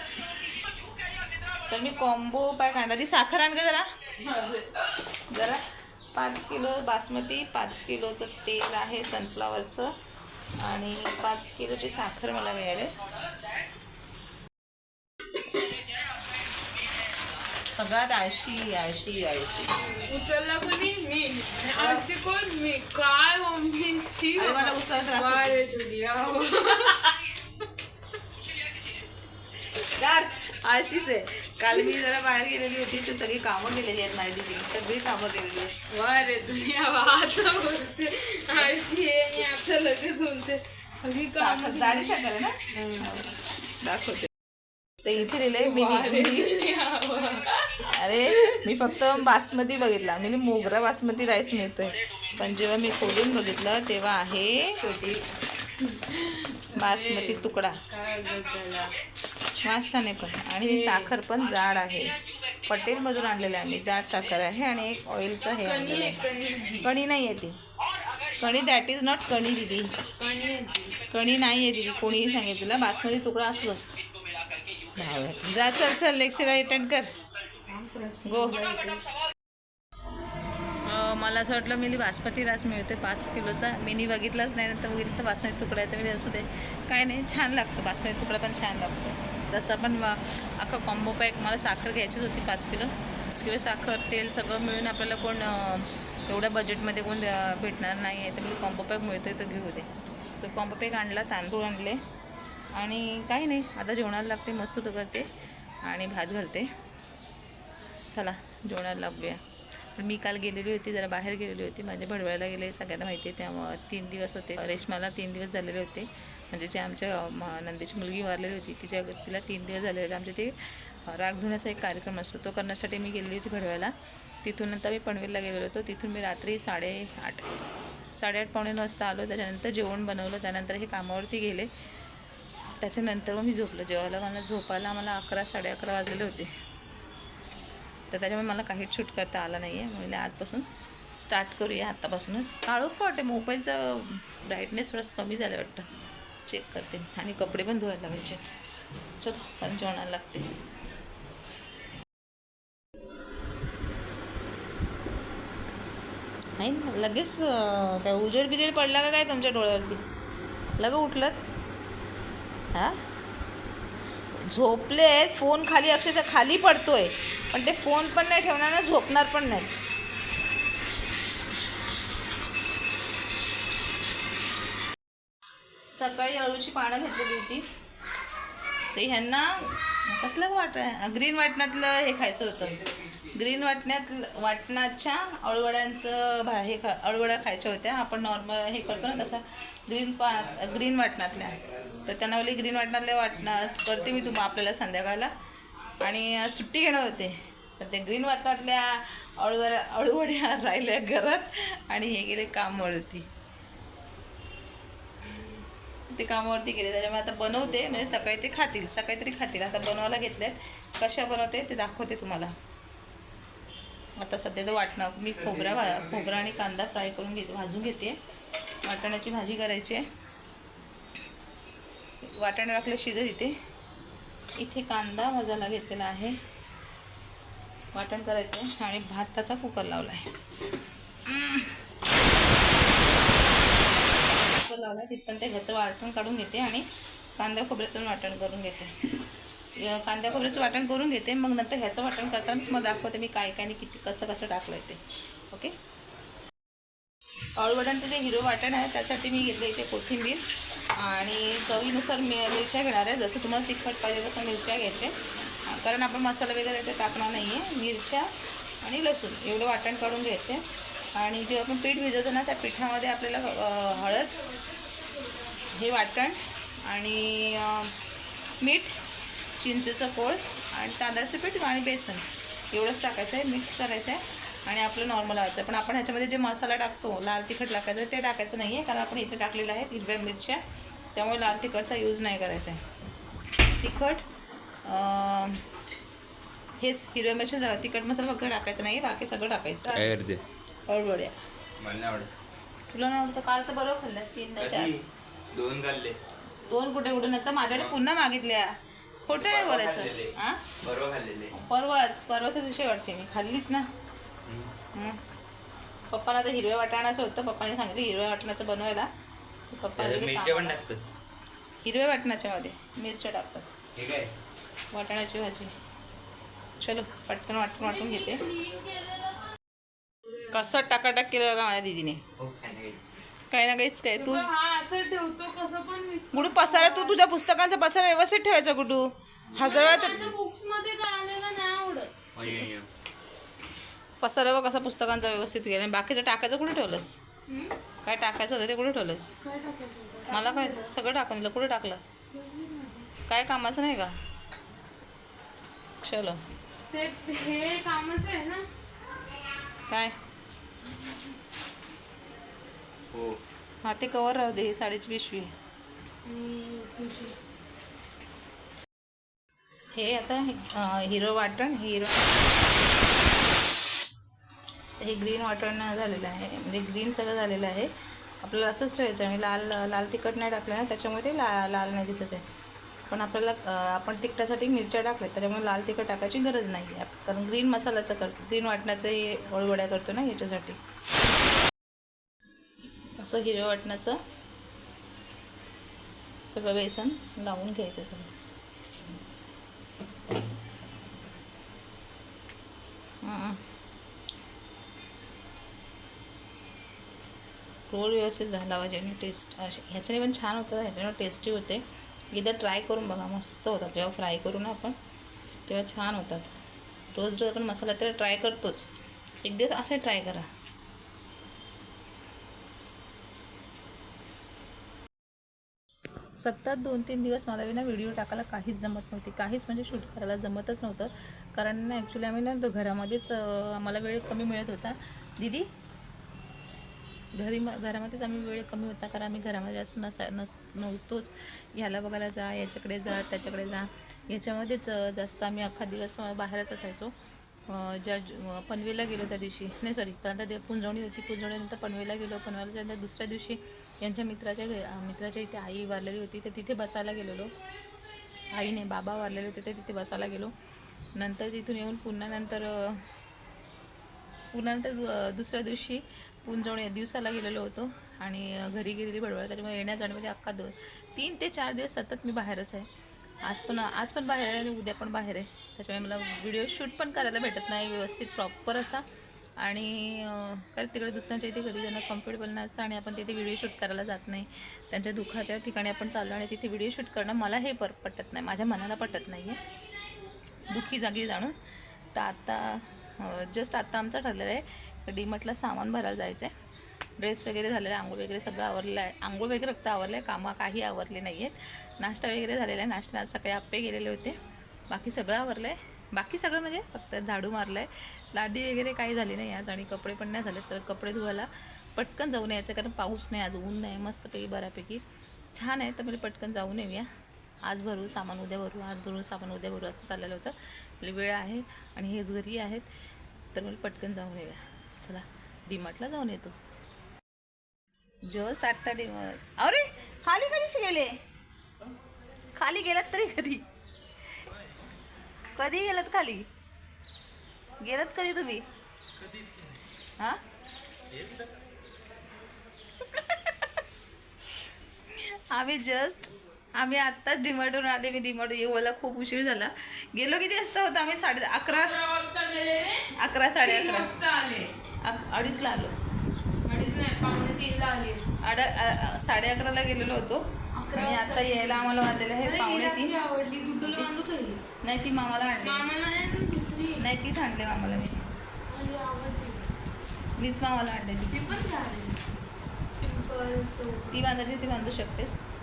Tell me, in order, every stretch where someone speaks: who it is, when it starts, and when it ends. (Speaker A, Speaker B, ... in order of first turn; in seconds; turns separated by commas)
Speaker A: 1.7-3.9, Speaker B: 4.2-4.7, Speaker A: 5.2-9.9, Speaker A: 10.6-12.9, Speaker A: 17.7-19.7, Speaker B: 19.8-27.4, Speaker A: 21.8-22.1, Speaker A: 24.4-25.6, Speaker A: 29.7-35.8, Speaker B: 31.7-32.0, Speaker B: 35.9-43.1, Speaker A: 41.2-44.3, Speaker A: 45.0-46.6, Speaker B: 45.4-49.2, Speaker A: 47.8-54.9, Speaker B: 54.8-55.2, Speaker B: 55.8-59.0, Speaker A: 56.7-57.8, Speaker A: 59.6-66.2, Speaker B: 60.6-61.2, Speaker B: 65.4-66.9, Speaker A: 66.8-67.6, Speaker A: 68.4-69.9, Speaker B: 70.2-71.0, Speaker A: 71.1-74.0, Speaker A: 75.0-77.1, Speaker B: 77.7-79.1, Speaker A: 78.2-78.7, Speaker A: 80.8-99.9, Speaker A: 100.4-102.0, Speaker A: 102.7-105.3, Speaker A: 105.8-106.7, Speaker A: 108.1-109.4, Speaker A: 110.0-120.5, Speaker A: 121.0-127.4, Speaker A: 128.2-131.7, Speaker A: 132.7-136.5, Speaker A: 138.1-140.7, Speaker A: 141.2-145.9, Speaker A: 146.5-148.5, Speaker A: 149.2-150.5, Speaker A: 156.6-160.0, Speaker A: 160.8-161.3, Speaker A: 164.4-169.7, Speaker A: 175.9-177.7, Speaker A: 178.9-195.3, Speaker A: 196.0-203.3, Speaker A: 206.1-212.5, Speaker A: 214.2-218.2, Speaker A: 218.8-220.1, Speaker A: 222.2-223.6, Speaker A: 224.6-226.4, Speaker A: 227.9-230.3, Speaker A: 231.2-231.7, Speaker A: 234.3-236.8, Speaker A: 237.4-238.9, Speaker A: 239.8-245.7, Speaker A: 247.6-250.4, Speaker A: 250.9-258.3, Speaker A: 258.8-260.6, Speaker A: 261.1-264.3, Speaker B: 263.6-265.9, Speaker A: 265.7-267.9, Speaker A: 268.6-268.9, Speaker A: 269.6-280.6, Speaker A: 281.1-282.8, Speaker A: 283.8-284.2, Speaker A: 284.9-285.6, Speaker A: 286.8-290.2, Speaker C: 289.9-290.4, Speaker A: 290.9-291.3, Speaker C: 291.8-292.3, Speaker A: 292.9-294.9, Speaker C: 294.6-296.1, Speaker A: 296.6-298.7, Speaker A: 299.2-300.8, Speaker C: 299.3-301.5, Speaker A: 301.5-303.9, Speaker C: 304.4-304.7, Speaker A: 304.9-305.2, Speaker A: 306.1-309.1, Speaker A: 309.7-310.8, Speaker C: 309.9-311.1, Speaker A: 311.8-313.7, Speaker C: 313.9-314.3, Speaker A: 314.9-315.7, Speaker A: 316.8-318.5, Speaker B: 317.8-319.5, Speaker A: 320.5-322.2, Speaker C: 322.4-323.0, Speaker A: 323.5-324.4, Speaker B: 324.1-327.2, Speaker A: 326.3-330.3, Speaker B: 329.5-332.1, Speaker C: 332.3-332.9, Speaker A: 334.2-337.2, Speaker B: 337.5-337.7, Speaker A: 338.0-339.3, Speaker B: 339.4-340.9, Speaker A: 340.3-342.0, Speaker B: 342.3-343.1, Speaker A: 343.2-344.1, Speaker A: 346.0-346.4, Speaker B: 346.9-348.7, Speaker A: 349.9-350.1, Speaker C: 353.1-353.4, Speaker A: 353.8-355.5, Speaker B: 356.2-357.3, Speaker A: 359.9-362.5, Speaker A: 365.0-367.9, Speaker A: 368.4-372.4, Speaker A: 373.1-380.8, Speaker A: 383.2-384.2, Speaker A: 386.5-388.3, Speaker A: 393.2-393.6, Speaker A: 397.9-404.9, Speaker A: 405.6-406.5, Speaker A: 407.1-408.9, Speaker A: 409.4-410.5, Speaker A: 416.4-425.7, Speaker A: 427.4-437.1, Speaker A: 437.7-447.5, Speaker A: 448.5-450.5, Speaker A: 451.1-453.0, Speaker A: 454.5-462.9, Speaker A: 463.4-469.0, Speaker A: 469.6-479.6, Speaker A: 480.7-481.5, Speaker A: 482.1-486.5, Speaker A: 487.2-505.0, Speaker A: 505.5-507.1, Speaker A: 507.7-512.8, Speaker A: 513.5-516.5, Speaker A: 518.3-521.1, Speaker A: 522.5-523.6, Speaker A: 525.5-526.5, Speaker A: 527.8-528.6, Speaker A: 533.1-533.6, Speaker A: 535.1-542.0, Speaker B: 541.7-544.7, Speaker A: 543.1-544.1, Speaker A: 545.0-545.9, Speaker B: 546.6-548.3, Speaker A: 548.4-553.2, Speaker B: 550.8-554.6, Speaker A: 553.8-554.1, Speaker A: 554.8-555.9, Speaker B: 555.6-557.0, Speaker A: 557.0-558.2, Speaker B: 558.7-559.7, Speaker A: 560.4-561.5, Speaker B: 561.3-562.2, Speaker B: 563.0-564.3, Speaker A: 564.1-565.4